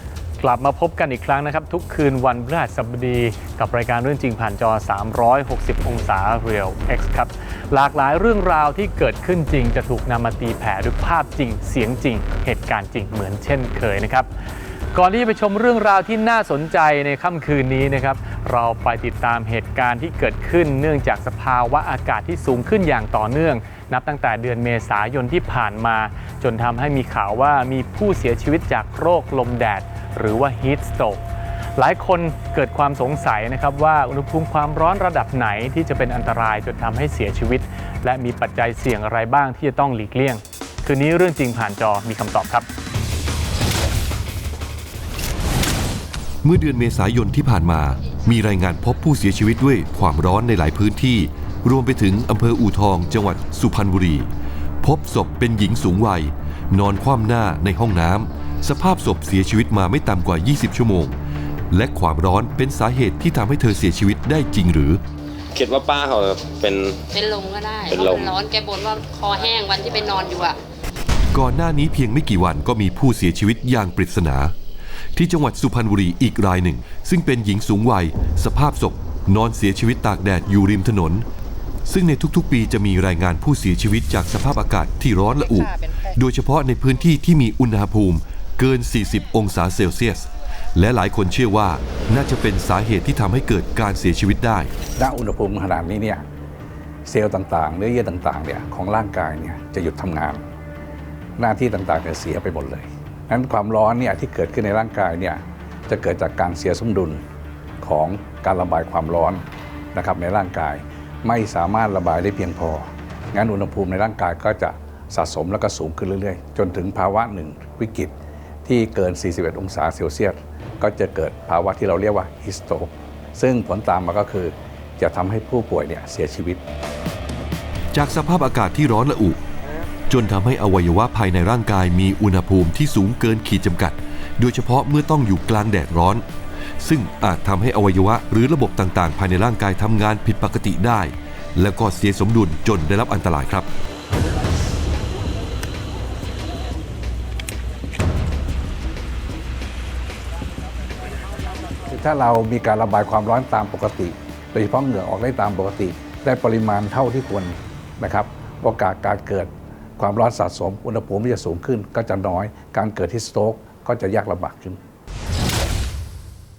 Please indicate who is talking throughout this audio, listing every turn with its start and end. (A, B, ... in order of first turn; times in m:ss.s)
0:00.4-0:14.3 A
0:14.9-0:31.2 A
0:31.8-0:42.7 A
0:46.4-0:54.3 B
0:54.8-1:01.1 B
1:01.7-1:05.0 B
1:05.6-1:05.8 C
1:05.6-1:07.0 D
1:06.6-1:10.6 C
1:07.9-1:08.3 D
1:11.3-1:14.5 B
1:15.1-1:21.2 B
1:21.8-1:34.7 B
1:35.0-1:36.2 E
1:37.1-1:40.4 E
1:41.4-1:47.2 E
1:47.8-1:49.4 E
1:49.9-2:06.6 E
2:07.9-2:09.4 B
2:10.1-2:16.2 B
2:16.8-2:23.7 B
2:31.9-2:44.8 E